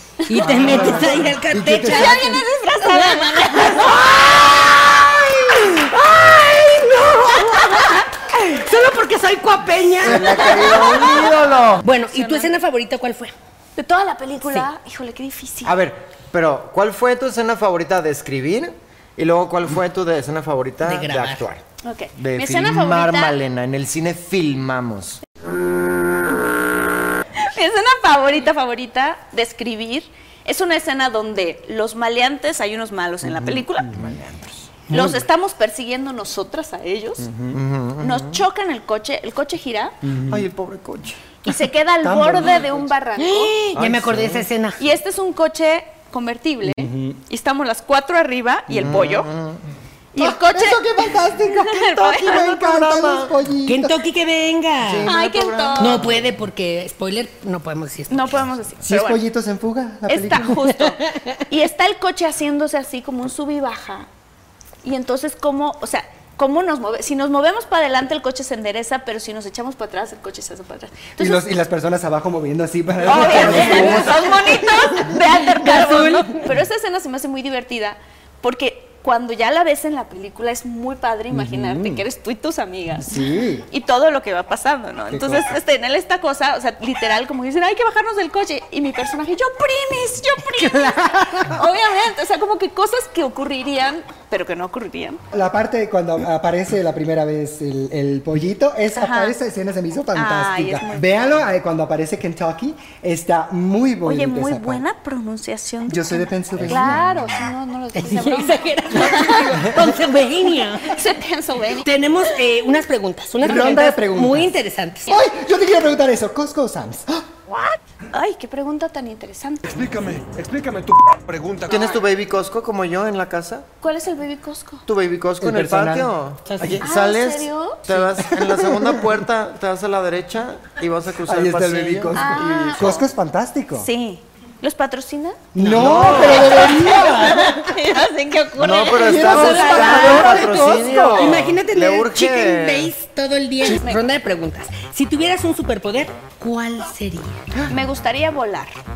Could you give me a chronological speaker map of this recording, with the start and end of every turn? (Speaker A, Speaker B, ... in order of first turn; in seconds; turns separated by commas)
Speaker A: 0.2-1.0, Speaker B: 0.3-11.1, Speaker C: 0.3-2.4, Speaker A: 1.8-4.1, Speaker A: 7.5-7.8, Speaker C: 10.0-11.3, Speaker D: 10.0-11.8, Speaker B: 11.8-13.3, Speaker A: 12.1-12.5, Speaker A: 13.8-15.7, Speaker D: 15.6-21.6, Speaker B: 20.8-21.4, Speaker A: 21.8-23.4, Speaker D: 22.2-25.2, Speaker A: 27.4-33.9, Speaker C: 33.4-34.1, Speaker D: 33.9-34.7, Speaker B: 34.9-35.2, Speaker A: 34.9-37.3, Speaker C: 37.2-37.6, Speaker D: 37.5-38.4, Speaker A: 38.0-40.0, Speaker C: 40.0-40.5, Speaker D: 40.3-41.2, Speaker A: 41.4-43.5, Speaker C: 42.0-42.9, Speaker B: 43.2-44.8, Speaker D: 43.7-44.5, Speaker A: 44.8-49.3, Speaker C: 46.6-47.2, Speaker D: 48.7-49.6, Speaker A: 50.1-52.5, Speaker C: 50.1-54.0, Speaker D: 52.0-53.3, Speaker B: 53.6-55.1, Speaker D: 54.8-56.3, Speaker A: 55.0-56.0, Speaker B: 55.8-58.5, Speaker A: 58.1-59.2, Speaker C: 58.8-60.6, Speaker A: 60.1-64.1, Speaker B: 60.6-61.4, Speaker A: 64.8-71.4, Speaker C: 71.2-75.1, Speaker A: 73.0-95.2, Speaker D: 73.2-74.0, Speaker B: 73.5-73.9, Speaker B: 75.5-76.5, Speaker C: 81.3-82.0, Speaker C: 83.0-83.7, Speaker C: 85.1-85.6, Speaker B: 90.5-91.6, Speaker C: 95.3-104.8, Speaker A: 98.9-99.3, Speaker A: 100.1-101.2, Speaker A: 104.0-109.7, Speaker C: 105.9-107.2, Speaker B: 107.9-111.0, Speaker C: 109.0-109.9, Speaker A: 110.8-111.9, Speaker B: 111.8-115.1, Speaker C: 113.4-114.5, Speaker C: 115.1-117.3, Speaker A: 118.1-119.8, Speaker E: 119.7-121.9, Speaker D: 121.7-123.7, Speaker A: 121.7-122.0, Speaker A: 123.8-124.8, Speaker D: 124.9-132.2, Speaker C: 125.4-126.1, Speaker B: 126.4-126.8, Speaker A: 126.8-127.8, Speaker C: 128.3-129.1, Speaker C: 131.2-133.9, Speaker A: 132.1-133.1, Speaker A: 133.8-135.4, Speaker C: 135.5-137.4, Speaker B: 135.6-137.7, Speaker D: 135.6-136.7, Speaker A: 136.1-140.1, Speaker D: 138.6-142.9, Speaker C: 139.0-141.4, Speaker B: 139.2-147.4, Speaker A: 143.7-144.0, Speaker A: 147.7-148.8